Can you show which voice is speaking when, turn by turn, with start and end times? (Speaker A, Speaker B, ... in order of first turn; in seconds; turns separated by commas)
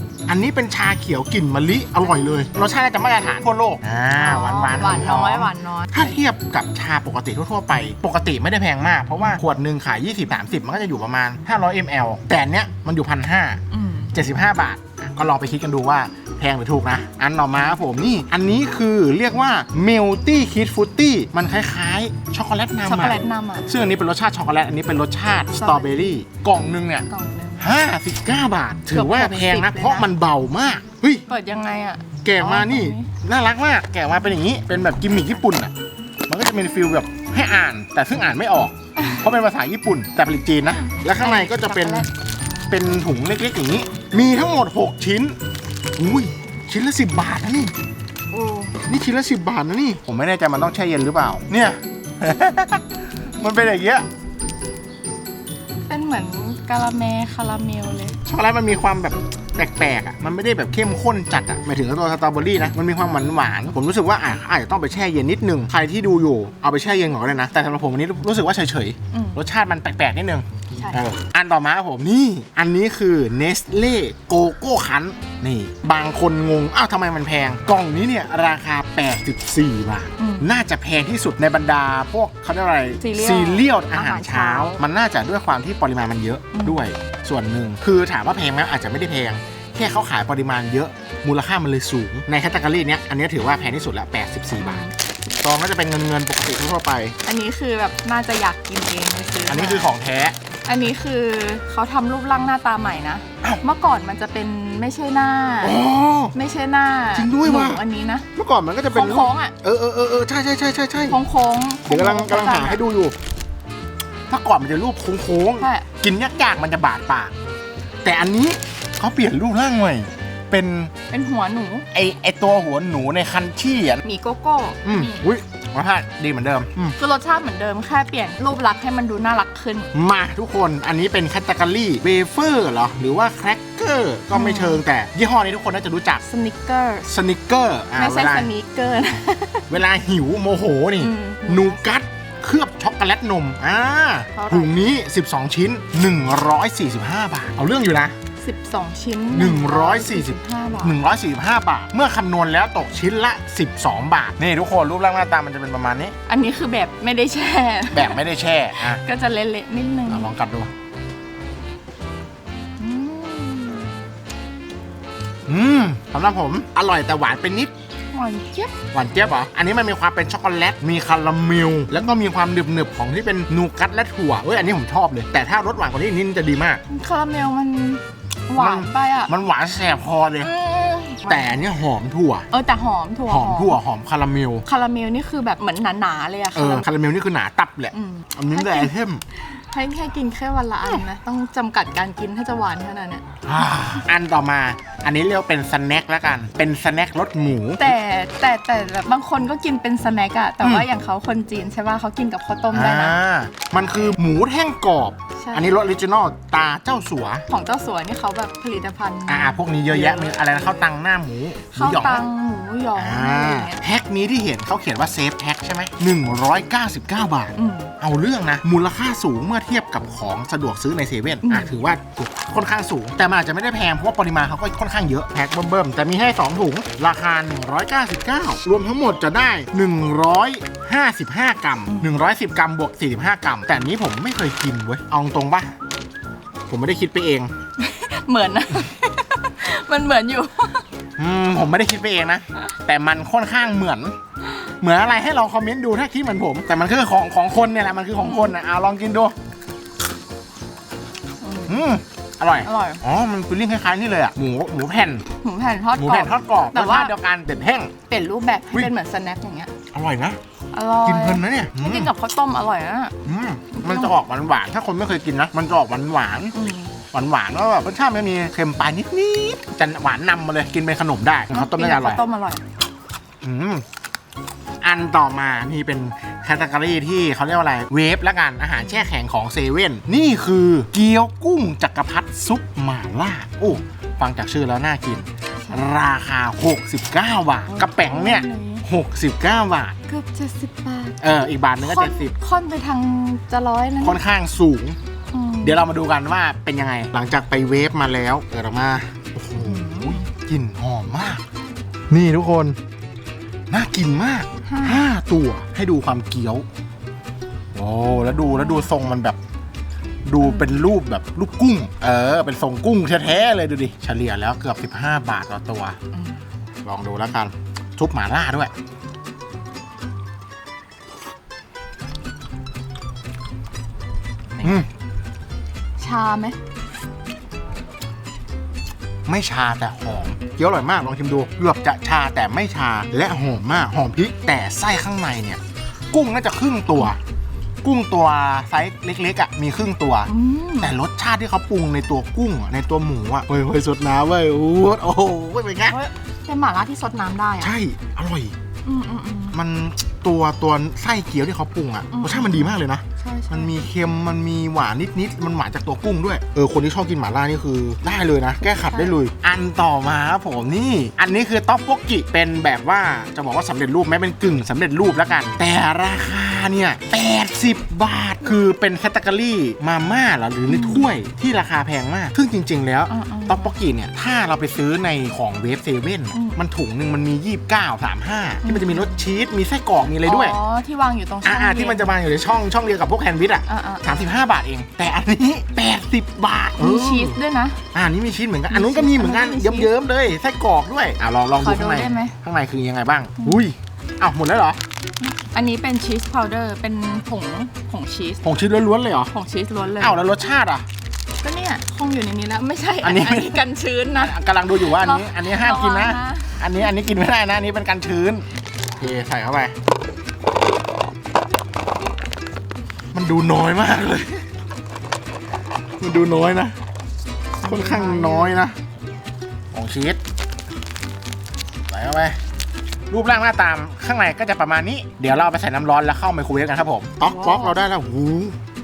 Speaker A: 0.3-13.6, Speaker B: 4.2-5.9, Speaker B: 13.7-14.1, Speaker A: 14.1-27.1, Speaker B: 22.9-23.7, Speaker B: 25.5-26.1, Speaker B: 27.1-27.7, Speaker A: 27.6-31.2, Speaker B: 28.9-30.1, Speaker B: 31.3-33.1, Speaker A: 32.2-35.7, Speaker A: 36.3-42.0, Speaker B: 39.0-39.2, Speaker B: 40.7-42.1, Speaker A: 42.7-45.4, Speaker A: 46.0-47.7, Speaker B: 48.3-48.8, Speaker A: 48.9-52.8, Speaker A: 53.4-54.0, Speaker B: 55.9-58.2, Speaker A: 58.2-97.1, Speaker B: 69.1-69.4, Speaker B: 70.7-71.0, Speaker B: 80.2-80.5, Speaker B: 83.0-84.8, Speaker B: 86.5-86.8, Speaker B: 94.6-94.9, Speaker B: 97.2-99.9, Speaker A: 99.5-100.4, Speaker B: 100.7-105.8, Speaker A: 105.6-106.3, Speaker B: 106.3-108.2, Speaker A: 107.1-107.8, Speaker A: 108.3-111.2, Speaker B: 108.9-109.5, Speaker B: 111.1-112.8, Speaker A: 111.9-113.1, Speaker A: 114.3-117.3, Speaker B: 115.6-115.8, Speaker A: 118.0-120.9, Speaker B: 121.1-121.9, Speaker A: 121.9-124.0, Speaker B: 124.0-125.3, Speaker A: 124.8-127.0, Speaker B: 127.0-129.9, Speaker A: 129.9-136.2, Speaker B: 134.3-134.8, Speaker B: 136.2-137.1, Speaker A: 137.1-138.5, Speaker B: 137.9-139.7, Speaker A: 139.7-148.1, Speaker B: 141.0-141.9, Speaker B: 144.3-144.8, Speaker B: 148.4-151.0, Speaker A: 149.3-156.2, Speaker B: 156.3-158.2, Speaker A: 157.9-159.0, Speaker B: 158.8-160.3, Speaker A: 160.1-160.7, Speaker B: 162.8-163.9, Speaker A: 165.5-167.7, Speaker B: 168.1-168.7, Speaker A: 168.9-176.8, Speaker B: 176.9-179.3, Speaker A: 178.6-180.5, Speaker B: 180.4-181.6, Speaker A: 181.2-182.5, Speaker B: 182.5-183.8, Speaker A: 183.3-184.7, Speaker B: 184.7-186.8, Speaker A: 186.5-189.2, Speaker B: 187.9-188.9, Speaker B: 189.5-193.9, Speaker A: 193.4-197.9, Speaker B: 197.8-203.2, Speaker A: 200.6-200.9, Speaker A: 202.7-207.4, Speaker B: 205.4-205.8, Speaker B: 207.5-210.9, Speaker A: 209.3-212.2, Speaker B: 211.7-213.8, Speaker A: 212.9-235.7, Speaker B: 217.6-217.9, Speaker B: 221.4-221.8, Speaker B: 231.9-232.2, Speaker A: 236.7-237.5, Speaker B: 237.8-240.8, Speaker A: 241.2-244.2, Speaker A: 244.8-249.3, Speaker B: 248.2-248.5, Speaker B: 251.4-251.8, Speaker A: 251.7-255.2, Speaker B: 252.6-253.0, Speaker B: 255.4-257.1, Speaker A: 256.0-257.9, Speaker B: 258.1-259.7, Speaker A: 259.9-260.4, Speaker B: 260.7-263.1, Speaker A: 261.0-262.1, Speaker A: 263.2-266.6, Speaker B: 263.7-264.2, Speaker B: 266.5-266.9, Speaker A: 267.1-272.2, Speaker B: 271.5-272.6, Speaker A: 273.4-273.8, Speaker A: 274.8-289.9, Speaker B: 278.8-279.1, Speaker B: 287.7-288.8, Speaker B: 290.1-294.2, Speaker A: 291.2-292.3, Speaker A: 294.0-295.0, Speaker B: 295.3-295.8, Speaker A: 295.6-301.4, Speaker B: 299.5-300.2, Speaker A: 302.1-302.8, Speaker A: 303.7-306.6, Speaker B: 304.6-305.1, Speaker A: 307.7-309.4, Speaker B: 308.1-308.9, Speaker A: 310.2-316.0, Speaker B: 310.4-310.7, Speaker B: 316.1-316.4, Speaker A: 316.8-318.7, Speaker B: 324.6-324.9, Speaker A: 324.6-324.9, Speaker B: 326.0-326.6, Speaker A: 329.3-335.6, Speaker A: 336.1-337.2, Speaker A: 337.8-346.0, Speaker B: 340.3-340.9, Speaker B: 345.9-347.7, Speaker A: 347.6-348.5, Speaker B: 348.8-349.6, Speaker A: 349.5-380.6, Speaker B: 352.1-353.7, Speaker B: 358.7-359.1, Speaker B: 370.7-371.1, Speaker B: 373.1-373.7, Speaker B: 376.3-376.6, Speaker B: 378.6-379.1, Speaker B: 380.2-382.1, Speaker A: 381.4-387.4, Speaker B: 383.7-384.3, Speaker B: 386.8-387.8, Speaker A: 387.9-394.8, Speaker B: 388.7-389.9, Speaker B: 391.6-392.4, Speaker B: 395.2-398.4, Speaker A: 398.4-399.3, Speaker B: 399.3-400.2, Speaker A: 400.0-400.8, Speaker B: 401.4-406.9, Speaker A: 403.0-408.4, Speaker A: 408.9-409.7, Speaker A: 413.1-414.5, Speaker A: 416.0-416.8, Speaker B: 417.6-418.7, Speaker A: 417.6-418.8, Speaker A: 419.7-420.2, Speaker A: 421.9-422.4, Speaker A: 423.1-428.6, Speaker B: 427.2-427.8